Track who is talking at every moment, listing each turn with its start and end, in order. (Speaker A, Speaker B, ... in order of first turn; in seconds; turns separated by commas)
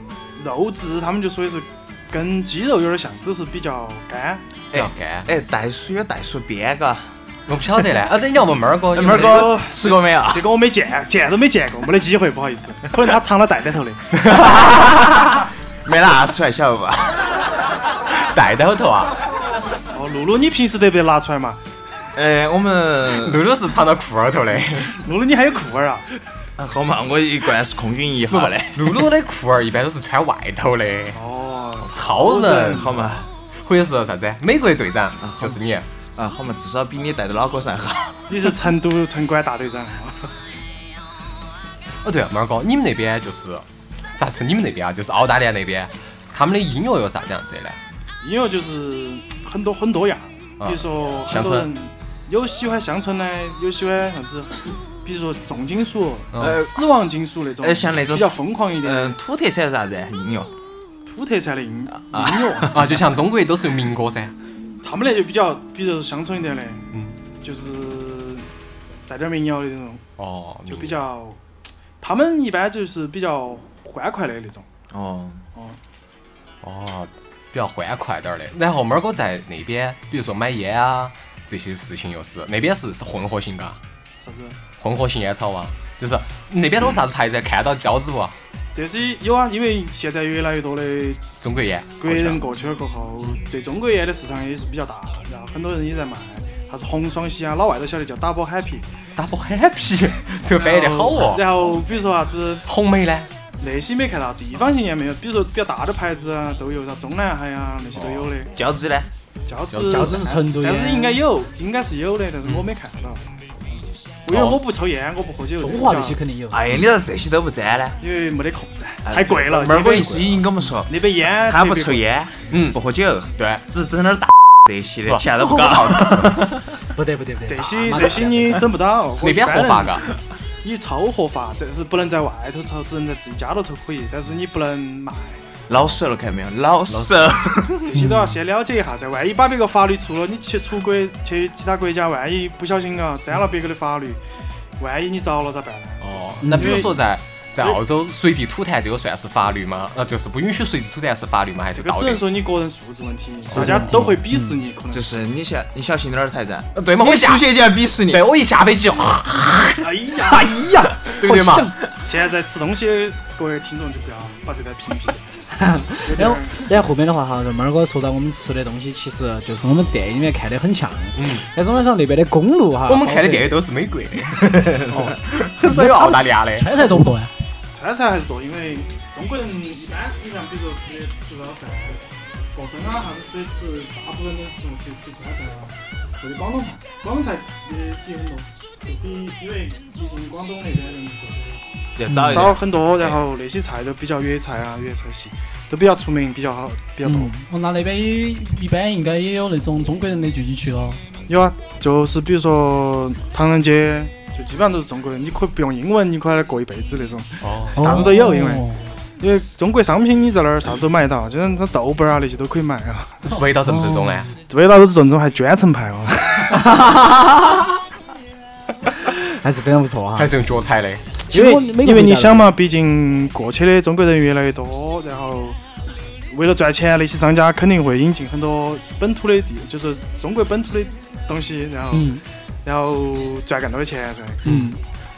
Speaker A: 0.4-4.5, Speaker B: 4.7-7.1, Speaker C: 4.7-5.3, Speaker C: 7.5-9.6, Speaker B: 8.9-10.5, Speaker A: 9.0-14.0, Speaker C: 14.2-14.7, Speaker B: 14.3-17.4, Speaker C: 18.2-19.2, Speaker A: 19.9-21.6, Speaker B: 22.1-23.4, Speaker C: 23.2-25.0, Speaker A: 24.9-26.1, Speaker B: 26.6-29.1, Speaker C: 28.3-31.2, Speaker A: 31.1-32.9, Speaker C: 31.9-35.9, Speaker B: 32.6-33.3, Speaker B: 35.2-35.6, Speaker B: 36.2-38.4, Speaker A: 38.3-40.3, Speaker C: 42.0-43.6, Speaker C: 44.2-47.8, Speaker A: 48.2-59.2, Speaker C: 50.6-51.7, Speaker C: 56.3-56.7, Speaker B: 56.4-56.7, Speaker B: 57.6-60.5, Speaker A: 61.1-63.0, Speaker B: 62.0-62.8, Speaker C: 62.7-64.3, Speaker A: 64.8-66.8, Speaker A: 67.4-68.5, Speaker A: 69.1-70.0, Speaker C: 70.2-71.0, Speaker A: 70.7-71.4, Speaker A: 72.0-74.7, Speaker B: 74.9-75.4, Speaker C: 76.6-83.8, Speaker A: 84.2-84.6, Speaker C: 84.8-88.3, Speaker A: 88.8-91.2, Speaker C: 91.4-92.4, Speaker A: 92.0-98.9, Speaker C: 99.2-101.8, Speaker A: 100.5-102.7, Speaker C: 102.7-103.3, Speaker A: 103.6-108.5, Speaker C: 108.0-108.3, Speaker B: 108.5-109.1, Speaker A: 109.5-113.2, Speaker C: 109.7-110.3, Speaker D: 109.8-111.2, Speaker A: 114.2-116.2, Speaker C: 114.3-114.6, Speaker D: 115.6-116.6, Speaker B: 116.5-118.0, Speaker A: 118.0-122.2, Speaker B: 119.0-126.6, Speaker C: 122.5-122.8, Speaker C: 123.4-123.6, Speaker C: 125.1-126.4, Speaker D: 127.0-128.6, Speaker A: 127.5-135.4, Speaker C: 129.2-130.1, Speaker B: 135.7-138.0, Speaker C: 136.9-137.4, Speaker A: 137.9-144.2, Speaker D: 137.9-138.4, Speaker A: 144.8-147.0, Speaker C: 146.0-152.2, Speaker D: 146.4-146.9, Speaker A: 151.8-155.1, Speaker C: 153.5-154.2, Speaker D: 153.5-154.6, Speaker B: 154.9-158.2, Speaker C: 156.8-159.9, Speaker A: 159.8-160.7, Speaker D: 160.3-161.7, Speaker C: 161.1-161.8, Speaker A: 161.9-165.4, Speaker D: 165.6-173.5, Speaker A: 166.0-166.5, Speaker C: 171.2-171.5, Speaker C: 172.9-176.9, Speaker D: 175.6-176.1, Speaker E: 176.5-177.3, Speaker A: 177.7-191.6, Speaker B: 192.0-193.2, Speaker D: 192.1-192.4, Speaker A: 192.3-197.3, Speaker D: 197.0-197.4, Speaker E: 197.4-201.0, Speaker A: 201.3-213.2, Speaker C: 207.4-208.0, Speaker D: 207.8-208.5, Speaker E: 207.9-208.9, Speaker C: 213.3-214.3, Speaker D: 213.7-214.2, Speaker A: 214.5-216.8, Speaker D: 216.7-217.4, Speaker D: 219.0-220.3, Speaker C: 220.2-221.1, Speaker D: 221.3-222.5, Speaker A: 221.3-225.6, Speaker A: 226.3-234.7, Speaker D: 231.9-232.2, Speaker D: 234.4-234.8